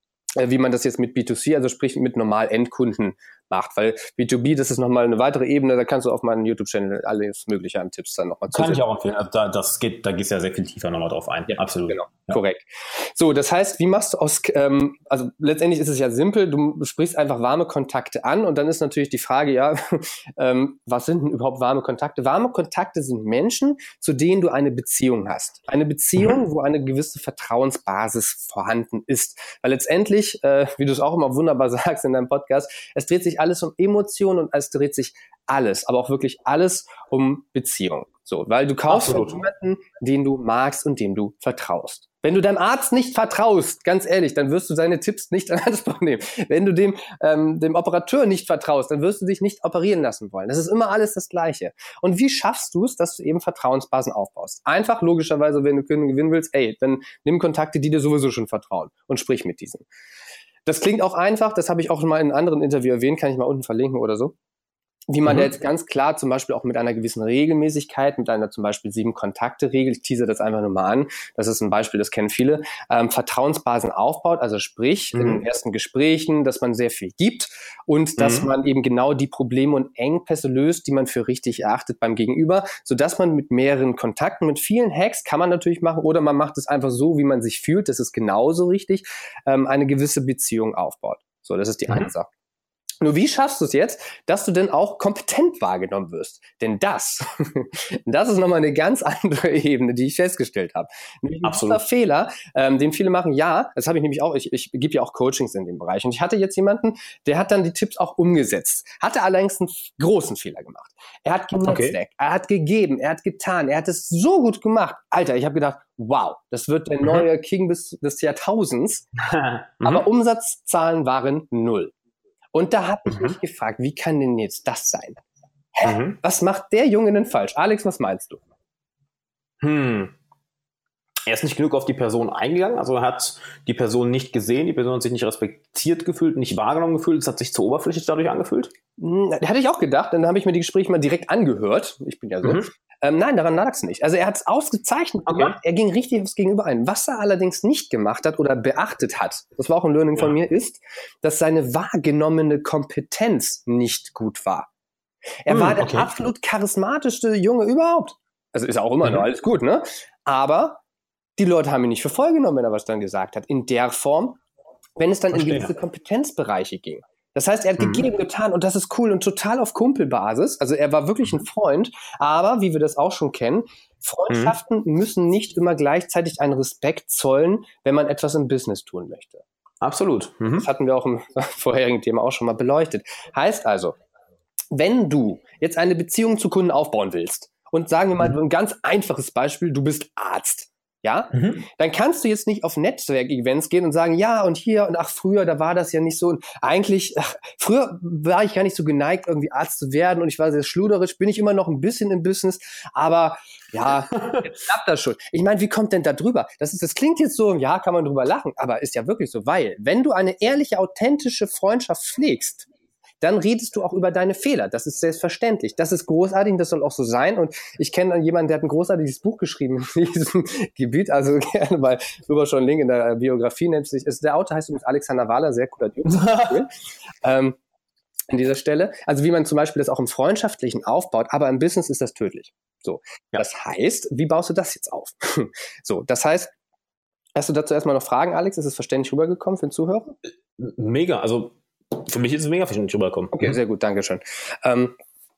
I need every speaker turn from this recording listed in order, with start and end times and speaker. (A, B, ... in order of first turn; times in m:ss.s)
0:00.4-0:08.8 A
0:08.5-0:12.4 B
0:11.8-0:59.8 A
0:38.9-0:39.4 B
1:00.7-1:04.3 A
1:05.1-1:32.3 A
1:15.1-1:15.4 B
1:18.2-1:18.5 B
1:33.0-1:59.1 A
1:41.4-1:41.8 B
1:51.6-1:52.0 B
1:59.2-2:00.0 B
1:59.8-2:01.9 A
2:02.5-2:05.2 A
2:03.1-2:03.3 B
2:05.8-2:08.4 A
2:05.8-2:06.2 B
2:09.6-2:10.1 B
2:11.3-2:18.7 B
2:19.0-2:34.7 A
2:22.4-2:22.7 B
2:25.3-2:25.5 B
2:35.4-2:40.8 A
2:35.5-2:36.1 B
2:41.4-2:44.4 A
2:45.0-2:59.4 A
2:45.3-2:45.7 B
2:47.8-2:48.1 B
2:54.3-2:54.5 B
2:59.8-3:00.7 B
3:00.5-3:03.9 A
3:04.7-3:32.7 A
3:11.3-3:11.7 B
3:24.1-3:24.4 B
3:33.2-3:46.7 A
3:46.0-3:46.6 B
3:47.2-3:47.6 A
3:48.3-3:56.5 A
3:57.3-4:00.2 A
4:00.6-4:03.6 B
4:03.3-4:05.0 A